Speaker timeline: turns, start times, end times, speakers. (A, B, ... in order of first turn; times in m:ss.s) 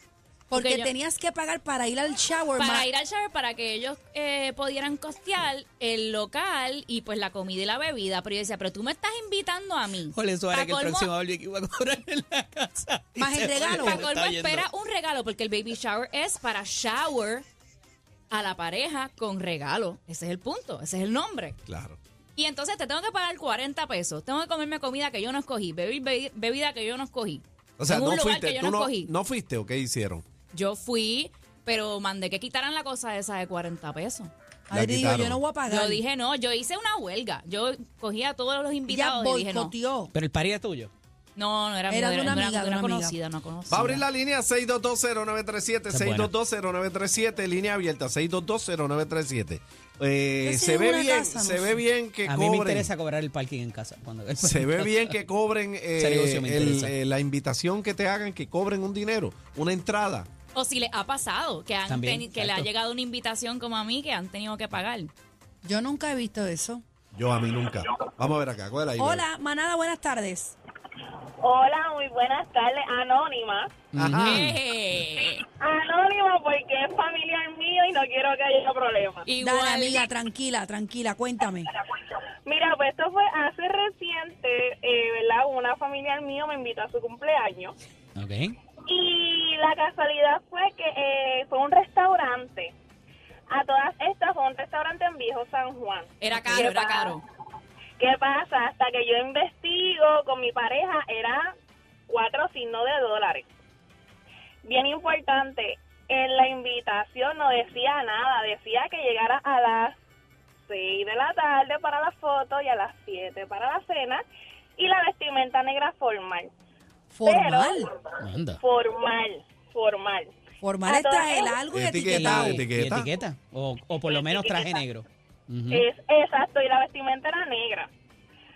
0:00.5-0:02.9 A
0:00.5-0:00.9 B
0:02.6-0:11.1 B
0:10.0-0:14.7 C
0:13.2-0:14.1 A
0:13.6-0:17.4 B
0:18.3-0:21.6 B
0:21.7-0:22.0 D
0:22.4-0:29.1 B
0:27.8-0:30.2 D
0:30.5-0:34.3 B
0:34.7-0:36.0 A
0:34.7-0:35.4 D
0:35.7-0:39.7 B
0:38.9-0:40.1 A
0:40.1-0:40.9 C
0:41.4-0:44.0 B
0:41.9-0:43.1 A
0:43.7-0:52.9 D
0:45.9-0:46.3 C
0:50.4-0:51.8 A
0:52.2-0:55.1 C
0:54.4-1:00.3 D
0:56.0-0:56.9 C
1:00.5-1:05.1 B
1:01.9-1:02.7 C
1:05.6-1:06.8 A
1:07.1-1:09.2 D
1:09.0-1:10.6 A
1:11.4-1:13.7 E
1:13.9-1:14.6 C
1:14.0-1:14.6 D
1:14.2-1:15.4 B
1:15.4-1:19.2 E
1:19.2-1:20.1 B
1:19.4-1:21.7 A
1:22.4-1:27.7 E
1:28.1-1:28.6 C
1:28.9-1:32.7 E
1:33.5-1:37.2 E
1:36.2-1:37.2 B
1:38.0-1:41.5 E
1:42.1-1:43.5 E
1:44.6-1:49.9 E
1:50.7-1:54.2 E
1:54.8-1:56.5 E
1:57.1-1:57.9 A
1:57.2-1:57.9 E
1:58.2-1:58.6 C
1:58.6-2:00.3 E
2:00.6-2:02.6 A
2:00.8-2:01.6 E
2:01.7-2:03.1 D
2:02.1-2:05.9 C
2:04.1-2:04.8 E
2:05.7-2:07.9 E